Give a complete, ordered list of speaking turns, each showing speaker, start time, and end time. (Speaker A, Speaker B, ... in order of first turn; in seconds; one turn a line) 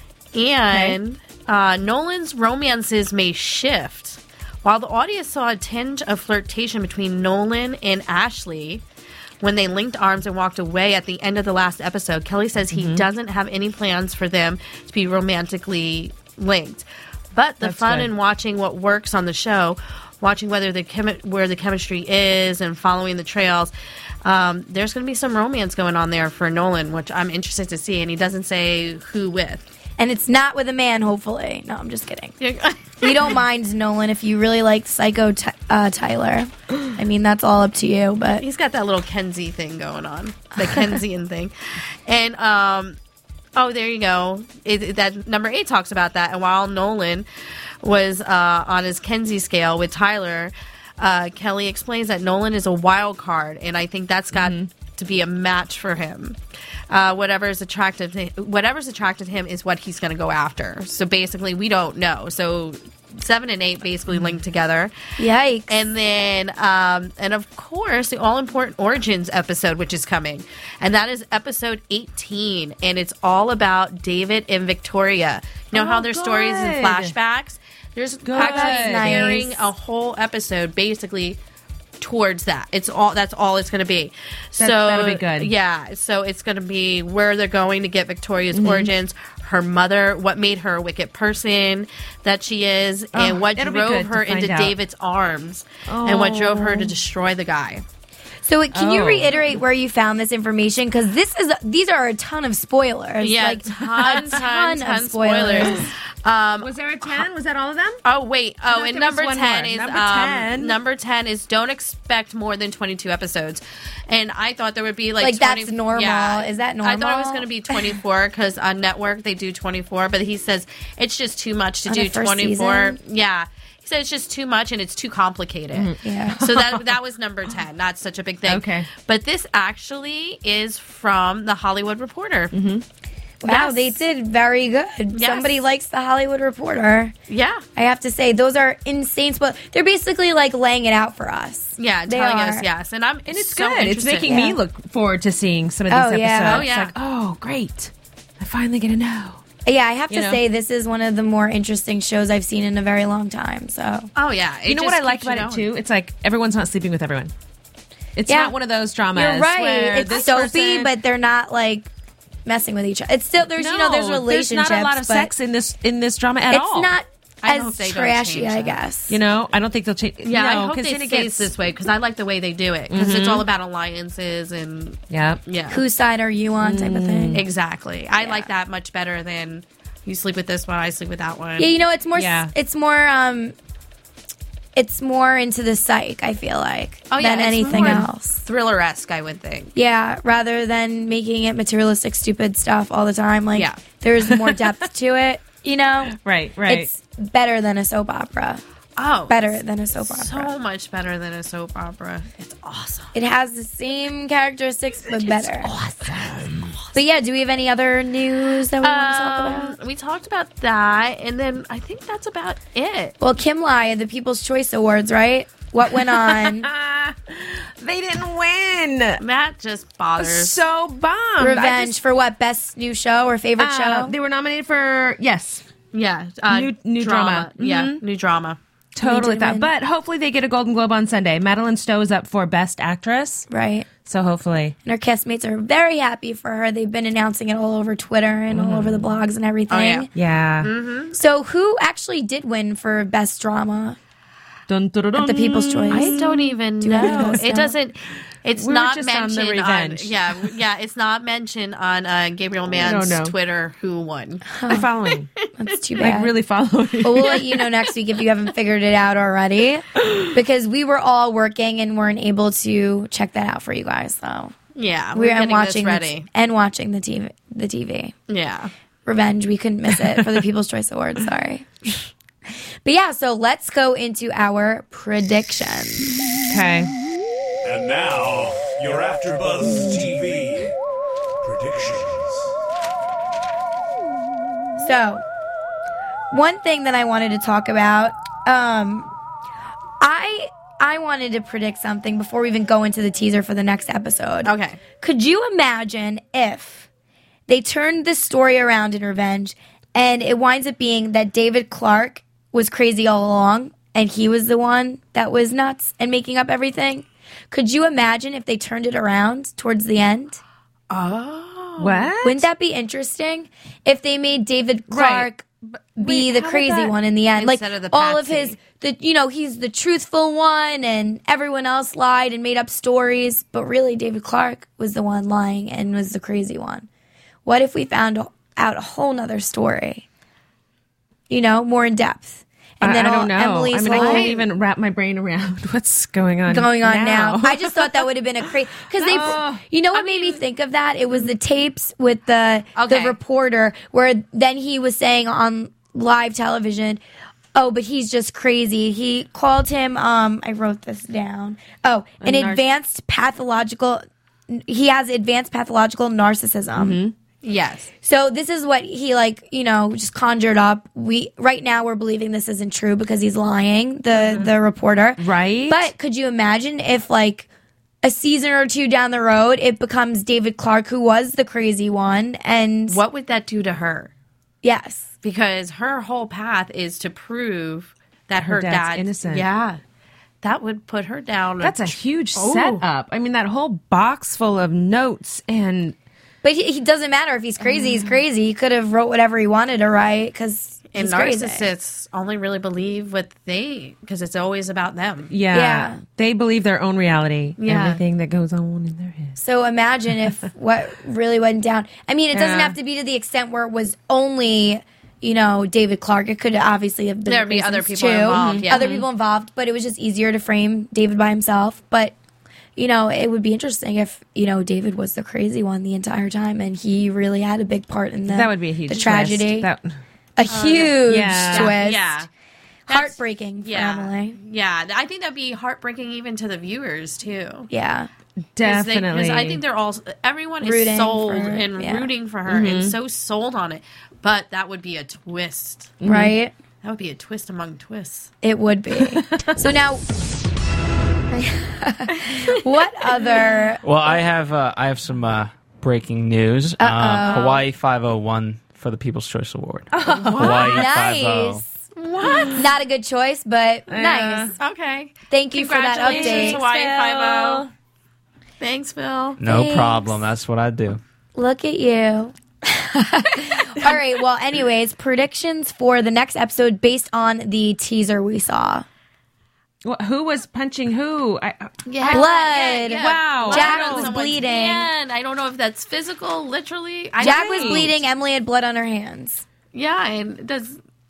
Speaker A: 0.3-8.8
Speaker A: 9.4-23.7
Speaker B: 12.7-13.0
Speaker B: 17.6-18.1
Speaker A: 24.2-29.6
Speaker C: 30.0-32.3
Speaker A: 32.4-33.4
Speaker C: 33.0-38.4
Speaker A: 38.4-41.5
Speaker A: 42.0-43.0
Speaker A: 43.5-47.3
Speaker A: 47.8-56.4
Speaker B: 54.3-54.7
Speaker A: 56.9-64.9
Speaker B: 64.1-64.4
Speaker C: 65.2-65.8
Speaker A: 65.7-81.4
Speaker B: 75.7-77.1
Speaker B: 78.2-79.4
Speaker C: 78.3-79.7
Speaker A: 82.0-97.8
Speaker B: 84.6-85.5
Speaker B: 88.5-88.9
Speaker B: 93.1-94.7
Speaker B: 95.9-96.9
Speaker C: 98.4-105.9
Speaker B: 98.7-99.5
Speaker A: 103.2-106.7
Speaker B: 103.8-104.2
Speaker B: 106.6-108.0
Speaker A: 108.0-132.5
Speaker B: 108.7-110.7
Speaker C: 115.2-117.5
Speaker C: 121.9-123.0
Speaker B: 125.7-126.9
Speaker C: 126.0-126.4
Speaker B: 128.5-128.9
Speaker B: 132.5-132.8
Speaker C: 133.4-137.1
Speaker A: 133.4-133.9
Speaker A: 135.1-135.6
Speaker A: 137.3-137.6
Speaker C: 137.8-142.7
Speaker A: 141.8-144.4
Speaker B: 143.3-149.4
Speaker C: 144.3-144.6
Speaker C: 145.9-146.7
Speaker A: 146.4-146.9
Speaker C: 149.6-154.1
Speaker B: 150.1-150.4
Speaker A: 154.1-155.7
Speaker B: 154.7-157.3
Speaker B: 158.2-160.9
Speaker C: 158.2-158.5
Speaker C: 159.1-161.9
Speaker C: 162.4-165.3
Speaker B: 163.6-166.9
Speaker C: 166.5-169.1
Speaker A: 167.4-168.8
Speaker B: 169.1-171.5
Speaker A: 170.2-175.8
Speaker B: 172.9-173.4
Speaker B: 175.1-175.4
Speaker C: 175.7-177.4
Speaker B: 176.6-177.4
Speaker A: 177.3-181.7
Speaker C: 178.2-178.5
Speaker C: 181.6-183.5
Speaker B: 182.1-182.5
Speaker C: 184.8-188.4
Speaker A: 187.1-189.7
Speaker B: 187.7-188.1
Speaker C: 189.7-198.6
Speaker B: 194.2-194.6
Speaker B: 196.2-196.9
Speaker A: 199.0-203.1
Speaker C: 199.3-200.5
Speaker C: 203.1-205.7
Speaker B: 205.5-206.8
Speaker C: 206.9-209.8
Speaker A: 208.8-213.1
Speaker C: 213.2-216.7
Speaker B: 215.9-219.2
Speaker A: 219.2-220.6
Speaker B: 220.2-221.9
Speaker C: 221.4-224.1
Speaker B: 223.6-225.6
Speaker A: 225.9-228.6
Speaker B: 226.5-228.0
Speaker B: 228.9-233.5
Speaker C: 229.0-229.7
Speaker C: 233.5-233.9
Speaker B: 234.0-234.7
Speaker C: 234.8-240.1
Speaker B: 238.5-239.1
Speaker A: 239.7-240.1
Speaker B: 240.1-240.7
Speaker A: 240.6-241.1
Speaker C: 241.1-244.0
Speaker B: 244.7-246.2
Speaker C: 245.2-247.7
Speaker A: 245.9-254.5
Speaker B: 247.0-247.4
Speaker B: 248.6-250.2
Speaker B: 252.8-253.3
Speaker C: 254.5-254.9
Speaker B: 254.7-255.3
Speaker C: 255.6-256.3
Speaker B: 256.0-257.4
Speaker C: 257.0-264.5
Speaker A: 264.7-266.3
Speaker C: 265.1-268.1
Speaker A: 268.3-268.7
Speaker C: 269.1-272.1
Speaker C: 272.8-276.2
Speaker B: 276.5-276.9
Speaker D: 277.6-280.7
Speaker D: 281.4-282.5
Speaker C: 284.8-285.2
Speaker C: 286.3-289.1
Speaker C: 290.0-296.9
Speaker A: 294.4-294.8
Speaker C: 297.5-310.4
Speaker A: 310.9-312.1
Speaker B: 311.8-312.5
Speaker C: 312.2-326.9
Speaker B: 314.9-315.2
Speaker A: 316.0-318.6
Speaker B: 316.1-316.7
Speaker C: 327.4-330.1
Speaker C: 331.3-334.4
Speaker B: 332.8-337.9
Speaker A: 333.9-334.4
Speaker C: 336.5-347.0
Speaker B: 339.0-339.6
Speaker A: 339.9-340.4
Speaker A: 342.7-343.2
Speaker C: 347.5-357.0
Speaker B: 352.2-352.6
Speaker B: 356.8-357.1
Speaker A: 357.4-357.9
Speaker C: 358.0-367.5
Speaker B: 364.2-364.5
Speaker B: 365.2-365.9
Speaker C: 368.0-373.0
Speaker A: 372.9-374.1
Speaker C: 374.6-375.1
Speaker A: 375.2-379.8
Speaker B: 378.4-379.4
Speaker A: 380.4-382.8
Speaker B: 381.6-385.9
Speaker C: 386.4-391.7
Speaker A: 390.9-395.3
Speaker B: 395.3-399.4
Speaker C: 395.5-396.0
Speaker A: 397.6-398.0
Speaker C: 399.4-412.1
Speaker B: 402.3-402.8
Speaker A: 407.3-408.8
Speaker B: 408.3-409.0
Speaker C: 412.8-419.7
Speaker B: 418.3-420.0
Speaker C: 420.4-422.2
Speaker A: 420.5-422.3
Speaker B: 421.1-421.7
Speaker C: 422.9-424.4
Speaker A: 422.9-427.7
Speaker C: 427.7-428.1
Speaker B: 428.5-429.6
Speaker A: 428.6-436.0
Speaker C: 430.6-432.1
Speaker B: 432.5-432.9
Speaker B: 436.0-436.3
Speaker C: 436.0-436.5
Speaker A: 436.8-438.3
Speaker C: 438.4-440.1
Speaker B: 439.0-439.6
Speaker C: 441.3-444.2
Speaker E: 443.8-451.6
Speaker C: 446.8-447.6
Speaker A: 447.3-447.5
Speaker B: 449.9-450.7
Speaker C: 450.3-451.7
Speaker A: 450.3-450.6
Speaker A: 452.0-452.6
Speaker B: 452.2-452.6
Speaker C: 452.6-454.5
Speaker B: 453.9-454.5
Speaker A: 454.6-457.6
Speaker C: 455.3-456.6
Speaker B: 456.0-457.7
Speaker A: 458.6-459.4
Speaker E: 459.4-461.0
Speaker C: 459.4-460.2
Speaker C: 461.3-468.9
Speaker B: 469.8-472.2
Speaker A: 471.9-478.0
Speaker C: 472.1-474.9
Speaker B: 472.8-474.1
Speaker C: 477.2-479.4
Speaker B: 477.2-477.8
Speaker A: 479.7-480.8